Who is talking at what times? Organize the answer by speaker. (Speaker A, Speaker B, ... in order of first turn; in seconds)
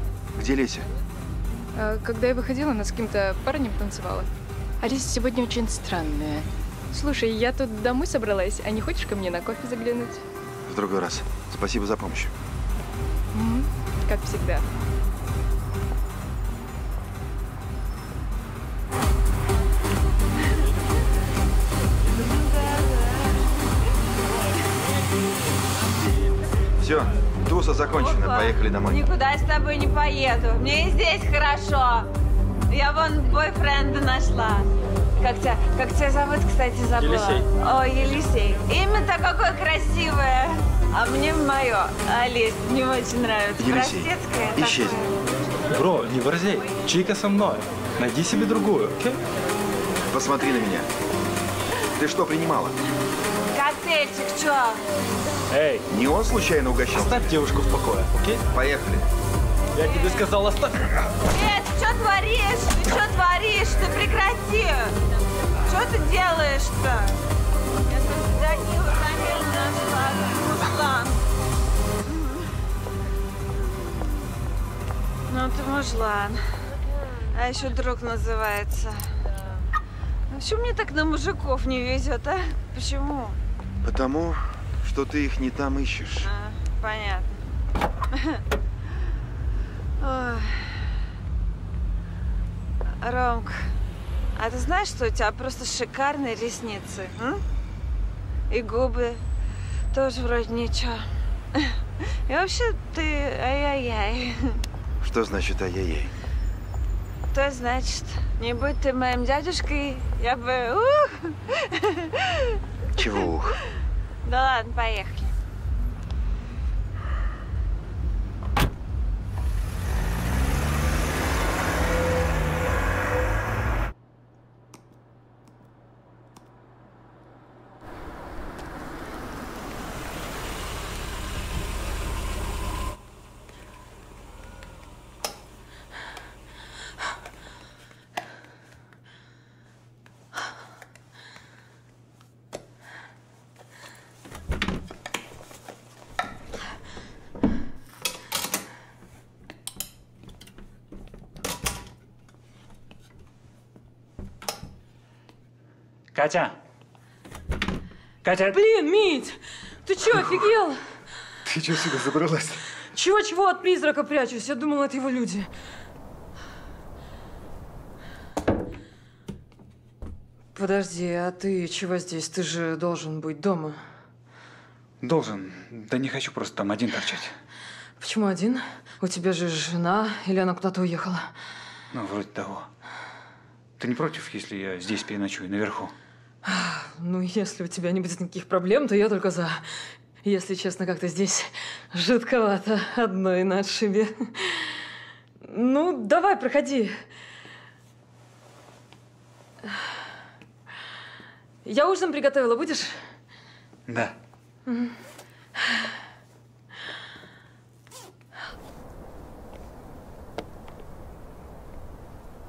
Speaker A: 0.4-0.9, 10.7-12.3, 26.8-29.0, 43.6-45.0, 50.1-50.9, 52.0-52.8, 55.9-57.3, 58.5-59.1, 83.8-86.3, 105.0-106.1, 113.0-113.5
Speaker B: 1.8-10.2, 13.3-14.7
Speaker C: 22.2-23.6, 28.0-32.1, 32.7-34.7, 35.2-45.2, 53.5-54.8, 61.3-65.0, 65.7-67.2, 67.9-71.2, 72.1-72.4, 75.3-76.7, 77.3-79.1, 80.3-83.4, 86.2-87.3, 88.2-88.4, 90.0-90.9, 93.0-93.7, 94.3-97.4, 98.5-99.2, 99.9-101.7, 102.3-104.6, 107.3-112.6, 114.2-115.3
Speaker D: 37.0-37.5, 45.7-49.2, 55.5-55.9, 56.9-58.4, 59.7-60.9
Speaker E: 156.1-156.6, 158.2-158.6, 161.4-162.6, 175.0-177.4, 181.9-182.7, 183.8-185.9, 203.9-204.1
Speaker F: 158.5-160.8, 162.9-165.5, 170.6-173.8, 178.0-181.3, 186.4-194.9, 195.4-197.0, 201.7-203.0, 204.7-204.9